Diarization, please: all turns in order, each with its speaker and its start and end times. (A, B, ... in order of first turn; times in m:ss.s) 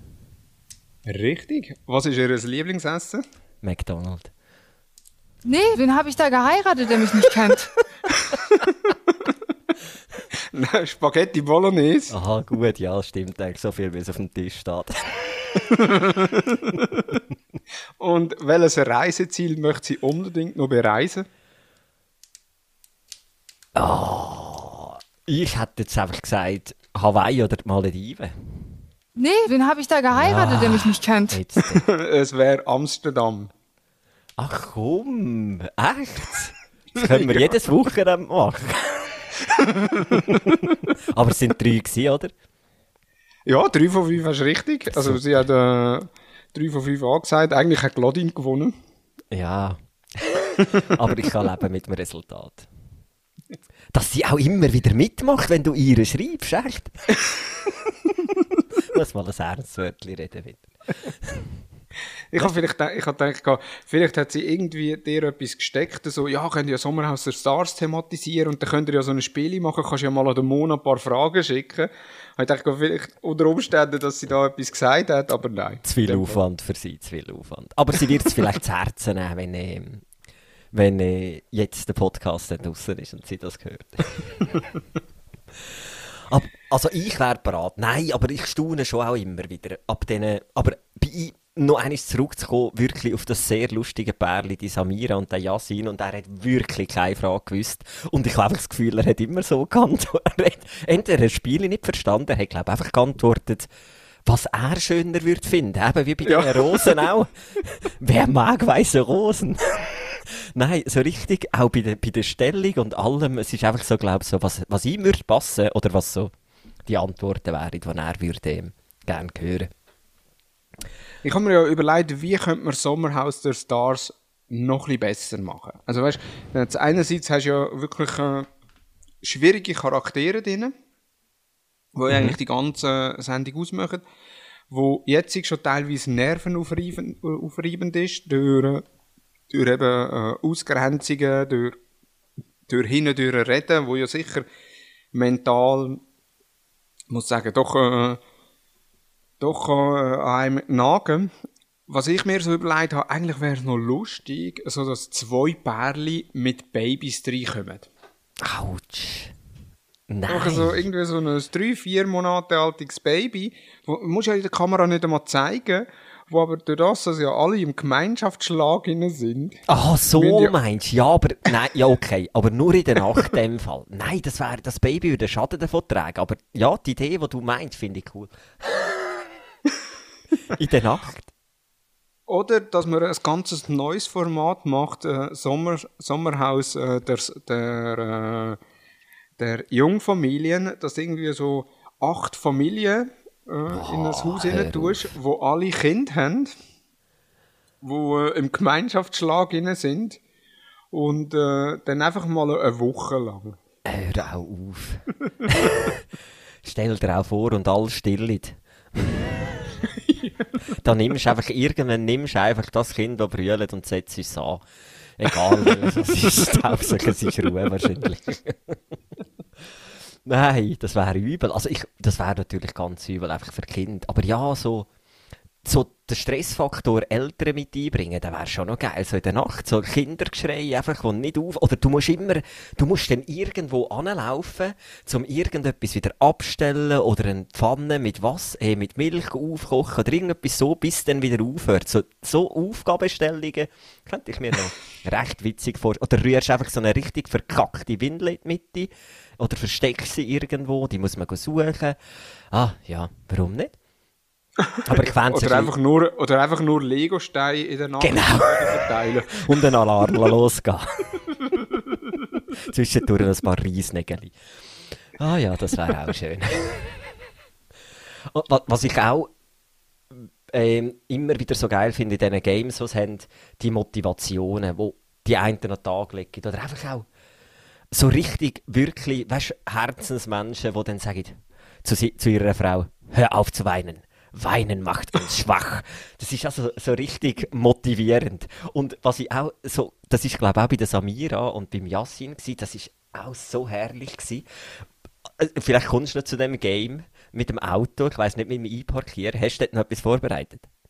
0:01.0-0:03.2 A
0:03.6-0:04.3 B
0:05.4-0:07.7 C
0:10.4-0:12.1 A
0:12.1-0:15.0 B
0:15.7-0:17.2 A
0:18.0-0:21.3 A
0:23.8-0:28.6 B
0:29.2-0:31.4 C
0:30.1-0:31.8 B
0:31.7-0:33.5 A
0:34.4-0:39.2 B
0:37.0-0:37.5 A
0:39.6-0:40.3 A
0:40.2-0:42.3 B
0:43.5-0:48.8 A
0:44.9-0:45.2 B
0:49.3-0:52.7 B
0:53.9-0:56.9 B
0:58.9-1:00.7 B
1:02.3-1:16.4 A
1:15.8-1:20.0 B
1:20.7-1:24.5 B
1:26.3-1:43.7 B
1:44.3-1:49.9 B
1:46.2-1:47.0 A
1:50.6-1:56.3 B
1:56.9-1:59.7 B
2:01.2-2:08.5 A
2:09.2-2:10.7 A
2:12.0-2:14.0 A
2:12.1-2:12.4 B
2:14.7-2:18.8 A
2:19.5-2:21.8 A
2:22.7-2:24.5 A
2:25.1-2:26.0 A
2:27.1-2:28.2 A
2:29.4-2:31.3 A
2:31.9-2:37.9 A
2:38.4-2:39.3 B
2:40.1-2:40.8 B
2:40.3-2:49.6 A
2:49.7-2:58.9 B
2:50.2-2:50.6 A
3:00.5-3:01.3 B
3:02.3-3:08.6 A
3:09.4-3:16.6 A
3:13.7-3:15.1 B
3:17.8-3:20.2 A
3:20.9-3:23.6 A
3:23.9-3:26.0 B
3:26.6-3:29.2 B
3:30.1-3:30.4 A
3:30.8-3:34.6 B
3:35.2-3:38.8 B
3:40.2-3:44.9 B
3:45.6-4:12.0 B
4:12.5-4:13.8 B
4:14.6-4:19.6 A
4:14.8-4:15.7 B
4:18.0-4:18.8 B
4:19.4-4:21.0 B
4:22.7-4:24.3 B
4:25.2-4:27.1 B
4:28.3-4:29.3 B
4:30.1-4:37.1 B
4:37.9-4:54.4 B
4:55.4-5:00.7 B